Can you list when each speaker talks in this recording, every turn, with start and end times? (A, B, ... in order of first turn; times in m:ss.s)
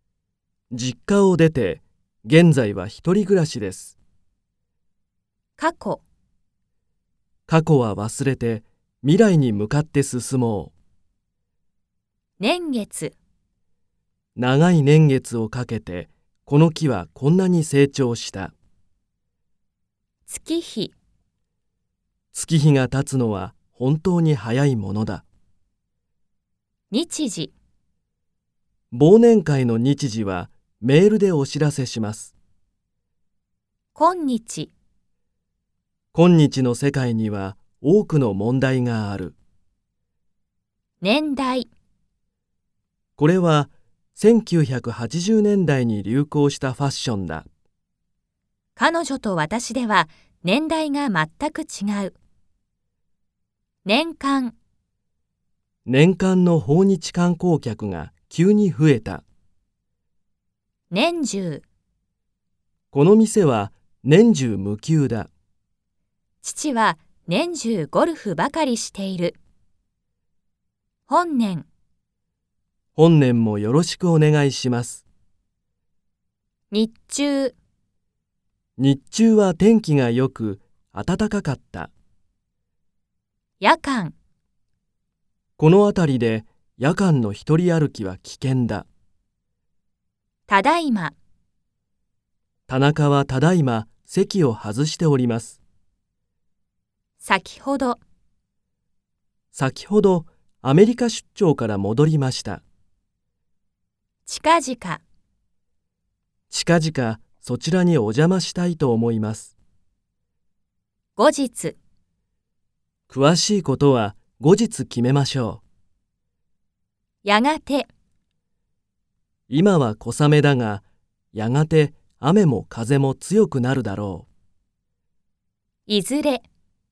0:00.7-0:04.0 A
0:05.6-0:06.0 B
0:07.5-0:10.7 A
0:12.4-0:13.2 B
0:14.4-0:18.5 A
0:20.3-0:20.9 B
0:22.3-0:25.2 A
0:26.9-0:27.5 B
0:28.9-0:32.3 A
0:34.0-0:34.7 B
0:36.1-0:39.4 A
0:41.0-0:41.7 B
0:43.2-0:47.5 A
0:48.8-0:52.2 B
0:53.8-0:54.6 B
0:55.9-0:59.2 A
1:00.9-1:01.6 B
1:02.9-1:05.3 A
1:06.4-1:09.4 B
1:11.1-1:11.7 B
1:13.0-1:15.0 A
1:16.7-1:17.6 B
1:18.8-1:21.9 A
1:23.6-1:24.2 B
1:25.6-1:28.9 A
1:30.5-1:31.2 B
1:32.7-1:35.6 A
1:37.2-1:38.0 B
1:39.5-1:42.6 A
1:44.3-1:45.0 B
1:46.5-1:49.5 A
1:51.2-1:51.8 B
1:53.1-1:55.6 A
1:57.2-1:57.9 B
1:59.5-2:04.3 A
2:05.9-2:06.4 B